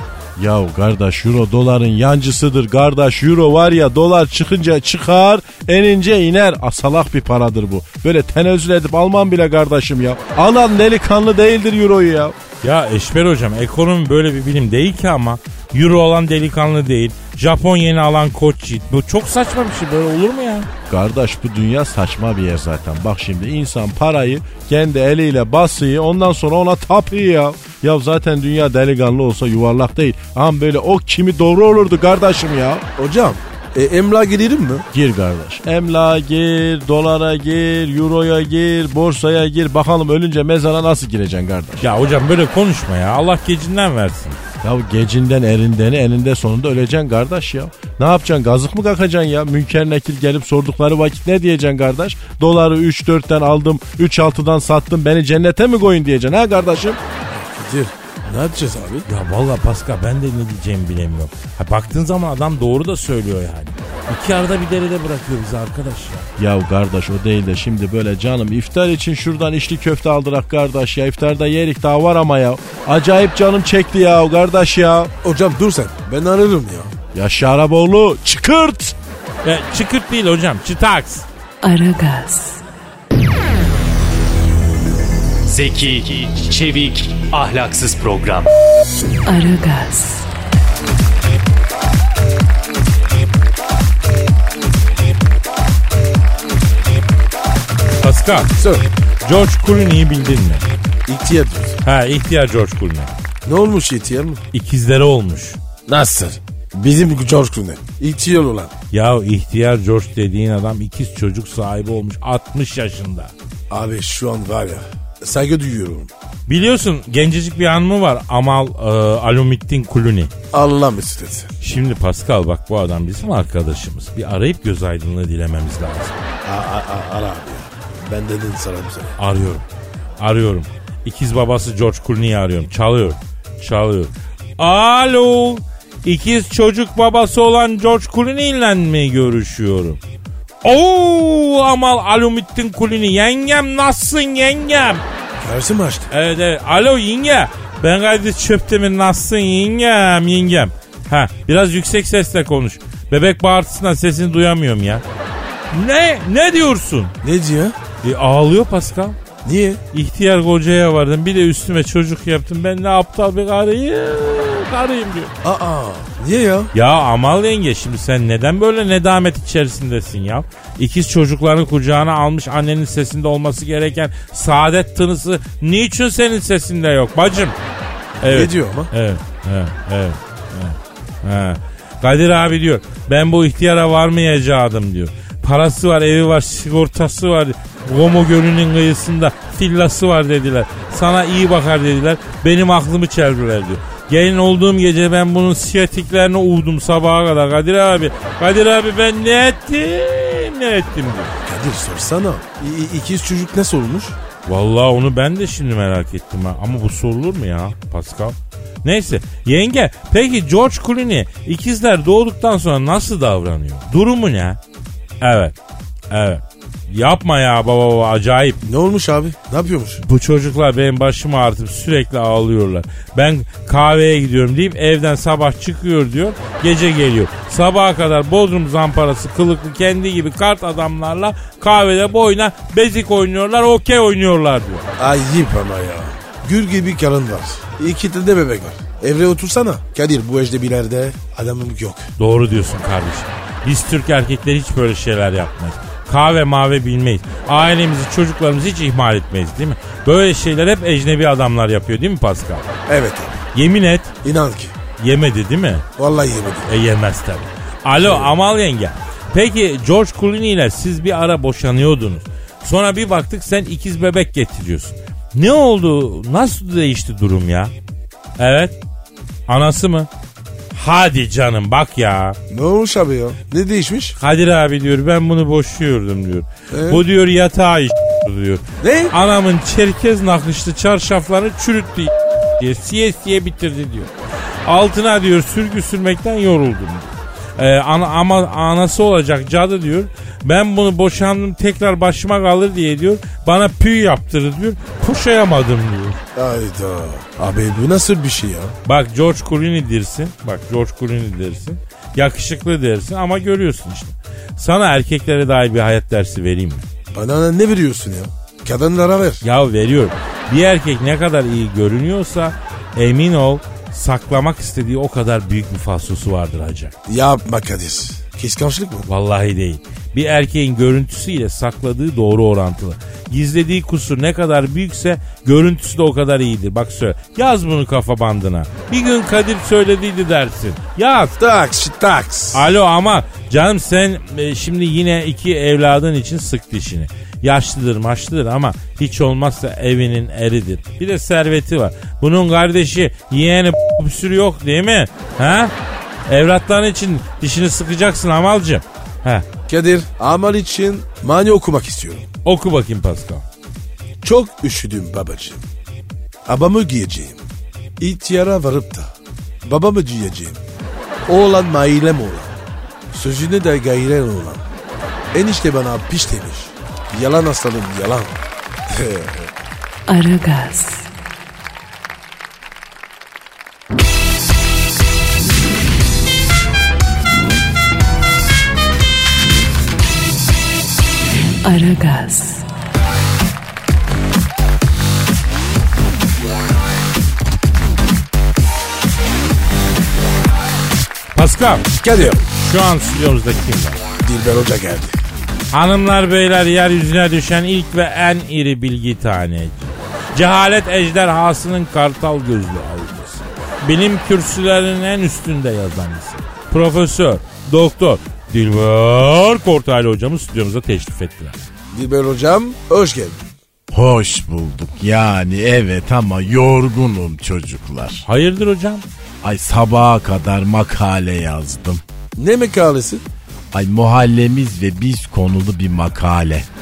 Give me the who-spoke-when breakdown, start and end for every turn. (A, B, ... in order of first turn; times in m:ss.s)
0:00.4-0:12.3 A
0:12.6-0:20.7 B
0:20.9-0:32.8 A
0:33.0-0:34.8 C
0:34.9-0:41.8 A
0:41.8-0:44.4 B
0:44.6-0:57.0 A
0:57.3-0:59.0 C
0:59.0-1:06.3 B
1:06.4-1:15.1 A
1:15.2-1:16.9 C
1:17.1-1:18.9 A
1:19.4-1:21.2 B
1:21.6-1:22.6 D
1:25.4-1:28.5 E
1:29.2-1:30.2 D
1:38.0-1:38.6 B
1:38.6-1:38.8 C
1:39.2-1:40.6 B
1:41.1-1:41.8 C
1:41.8-1:43.1 B
1:43.4-1:44.4 C
1:44.5-1:45.6 B
1:45.9-1:48.7 C
1:48.9-1:53.3 B
1:53.7-1:56.1 C
1:56.5-2:00.3 B
2:00.5-2:01.5 C
2:01.6-2:06.2 B
2:06.4-2:09.2 C
2:09.2-2:09.6 B
2:10.2-2:20.0 B
2:20.6-2:25.0 B
2:25.4-2:26.1 C
2:26.1-2:35.0 B
2:35.7-2:37.2 B
2:37.2-2:37.8 C
2:38.0-2:39.2 B
2:39.4-2:39.8 C
2:39.9-2:45.3 B
2:45.4-2:46.7 C
2:46.7-2:57.6 B
2:58.2-3:21.3 B
2:58.2-2:58.9 C
3:21.4-3:24.2 C
3:24.4-3:34.6 B
3:35.2-3:35.5 B
3:36.1-3:38.6 B
3:38.6-3:40.0 C
3:40.0-3:54.8 B
3:55.0-4:02.1 C
4:02.2-4:12.7 B
4:12.9-4:13.4 C
4:13.5-4:14.1 B
4:14.2-4:14.7 C
4:15.0-4:15.8 B
4:16.0-4:16.7 C
4:16.7-4:27.7 B
4:18.0-4:18.3 C
4:28.4-4:28.8 B
4:29.5-4:30.1 B
4:30.7-4:32.4 B
4:32.5-4:34.2 C
4:34.2-4:44.1 B
4:36.7-4:37.0 C
4:38.8-4:39.1 C
4:44.6-4:56.2 B
4:56.3-4:58.7 C
4:58.8-5:06.8 B
5:07.1-5:09.4 C
5:09.4-5:17.0 B
5:17.1-5:19.1 C
5:19.1-5:31.3 B
5:31.4-5:32.6 C
5:32.5-5:45.7 B
5:46.3-5:49.4 B
5:49.7-5:52.3 C
5:52.4-5:53.4 B
5:54.2-5:55.6 C
5:56.4-5:57.4 C
5:58.0-5:59.1 C
5:59.6-6:00.6 C
6:01.3-6:02.5 C
6:03.1-6:04.6 C
6:05.3-6:08.4 C
6:08.9-6:09.5 C
6:10.1-6:11.1 D
6:21.6-6:22.7 D
6:31.3-6:31.9 B
6:32.0-6:32.4 C
6:32.5-6:34.0 B
6:34.2-6:35.2 C
6:35.7-6:51.6 B
6:51.9-6:53.4 C
6:53.9-6:58.2 F
6:58.2-6:59.0 B
6:59.4-7:02.0 F
7:02.4-7:03.2 C
7:03.7-7:06.7 F